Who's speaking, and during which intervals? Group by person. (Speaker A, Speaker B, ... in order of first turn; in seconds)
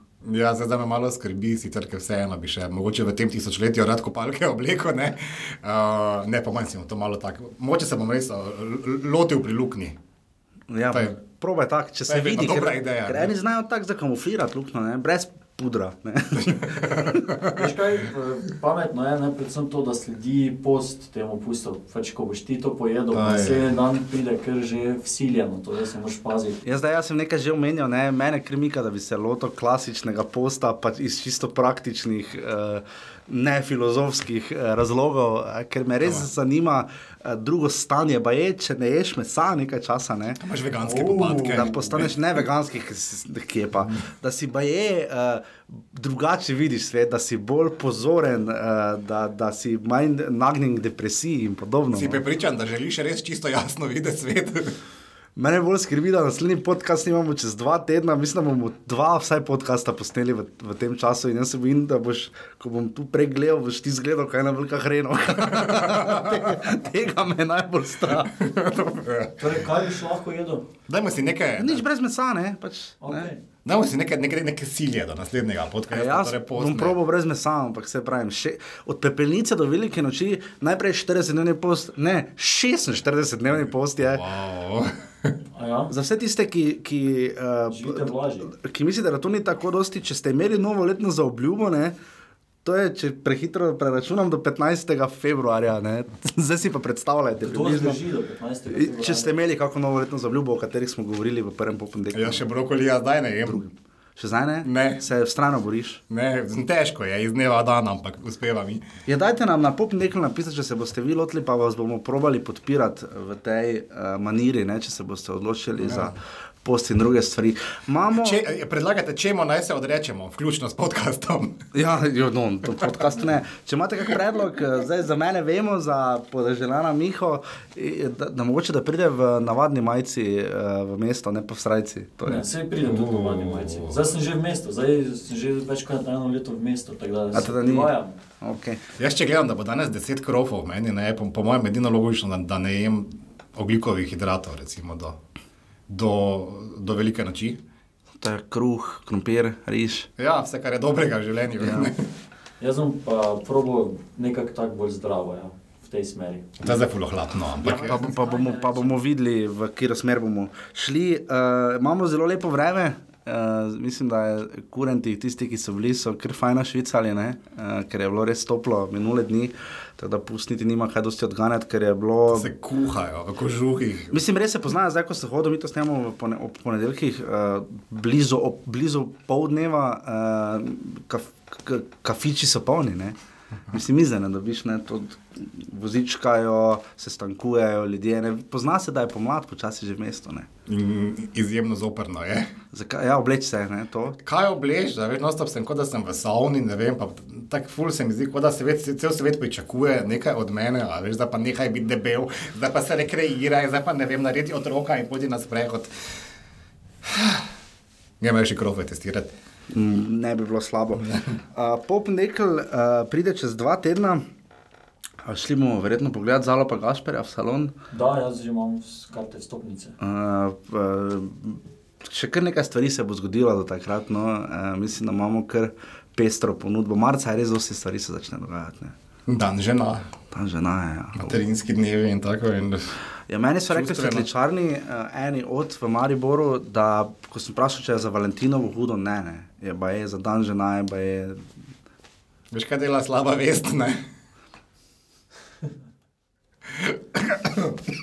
Speaker A: 0.2-10.0, 10.9-11.2, 12.1-13.3, 16.6-17.6, 23.1-23.7, 40.4-42.2, 51.9-54.8, 65.6-66.7, 68.2-69.5, 70.9-71.8, 73.7-77.0, 84.0-85.3, 102.1-103.7, 104.6-105.0, 106.1-108.8, 115.8-116.1, 118.2-121.6, 132.8-134.0, 139.0-145.2, 145.9-147.6, 150.2-152.1, 156.6-158.0, 172.3-174.2, 190.7-192.5, 194.2-205.9, 207.0-207.4, 208.2-209.3, 229.3-230.0, 231.2-232.9, 233.7-234.3, 242.5-244.0, 246.7-247.8
Speaker B: 10.7-17.2, 26.6-40.4, 41.1-52.2, 55.4-68.4, 71.6-73.3, 75.9-84.2, 85.9-92.0, 92.7-98.0, 98.7-102.4, 103.5-106.0, 109.1-118.4, 121.7-132.5, 137.3-138.8, 148.2-150.1, 151.6-151.9, 157.7-172.5, 174.1-183.2, 183.7-190.5, 192.7-194.2, 209.7-214.2, 215.2-217.7, 220.0-228.9, 230.3-231.4, 233.3-241.5
Speaker C: 17.5-26.6, 40.9-41.7, 69.4-70.7, 73.0-73.4, 85.5-85.9, 87.7-88.5, 97.4-99.4, 132.2-138.2, 152.6-156.7, 157.6-159.0, 217.9-220.0